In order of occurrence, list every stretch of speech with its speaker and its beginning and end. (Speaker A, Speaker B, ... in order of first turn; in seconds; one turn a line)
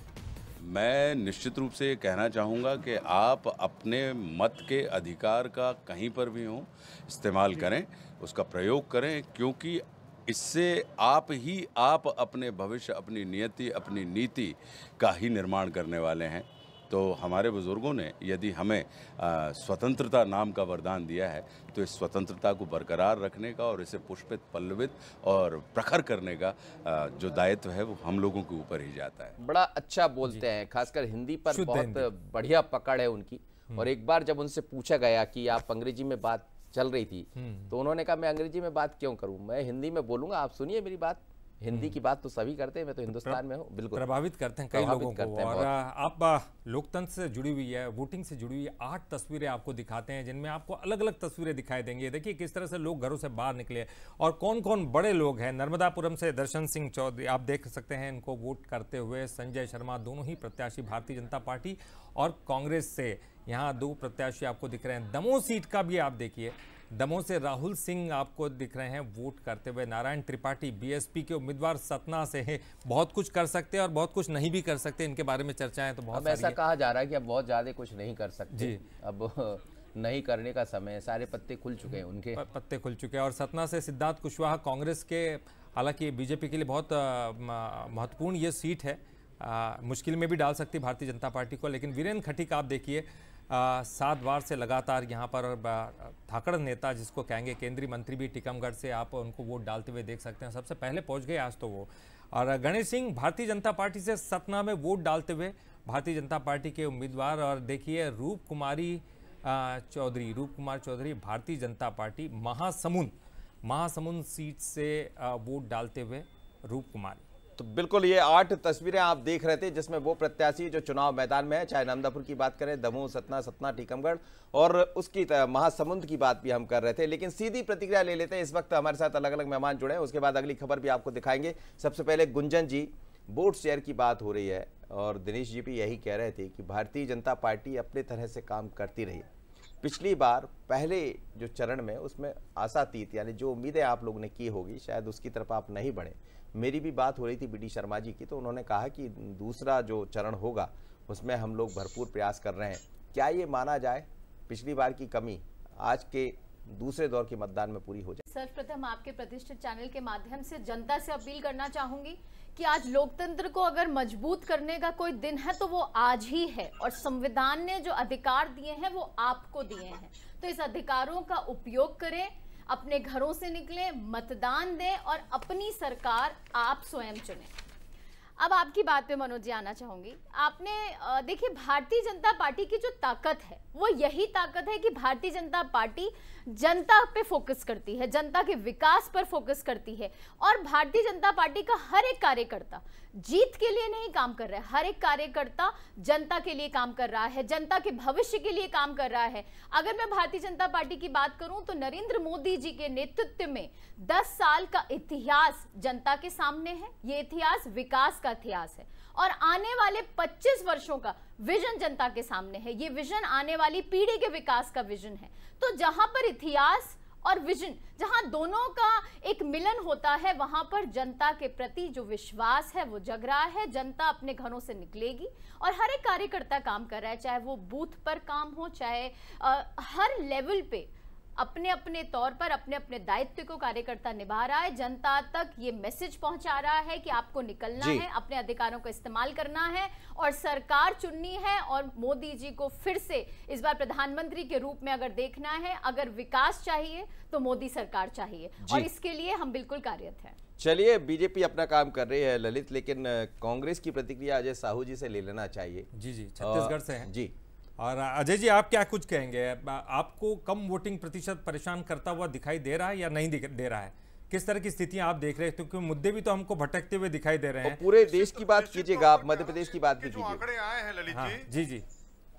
Speaker A: 0.6-29.4
Speaker B: 29.4-44.1
Speaker C: 31.5-32.1
Speaker C: 37.4-37.7
Speaker C: 41.7-42.0
Speaker C: 43.9-76.6
Speaker B: 44.7-45.7
Speaker B: 76.1-82.4
Speaker C: 78.5-78.8
Speaker C: 82.3-117.2
Speaker B: 117.6-139.3
Speaker B: 139.8-158.2
Speaker D: 158.3-177.5
Speaker D: 178.4-250.3
Speaker B: 237.8-238.0
Speaker B: 248.6-248.9
Speaker B: 250.6-255.9
Speaker C: 255.9-257.1
Speaker B: 256.4-257.3
Speaker C: 257.8-267.8
Speaker B: 267.6-270.4
Speaker E: 267.9-271.5
Speaker C: 271.1-271.8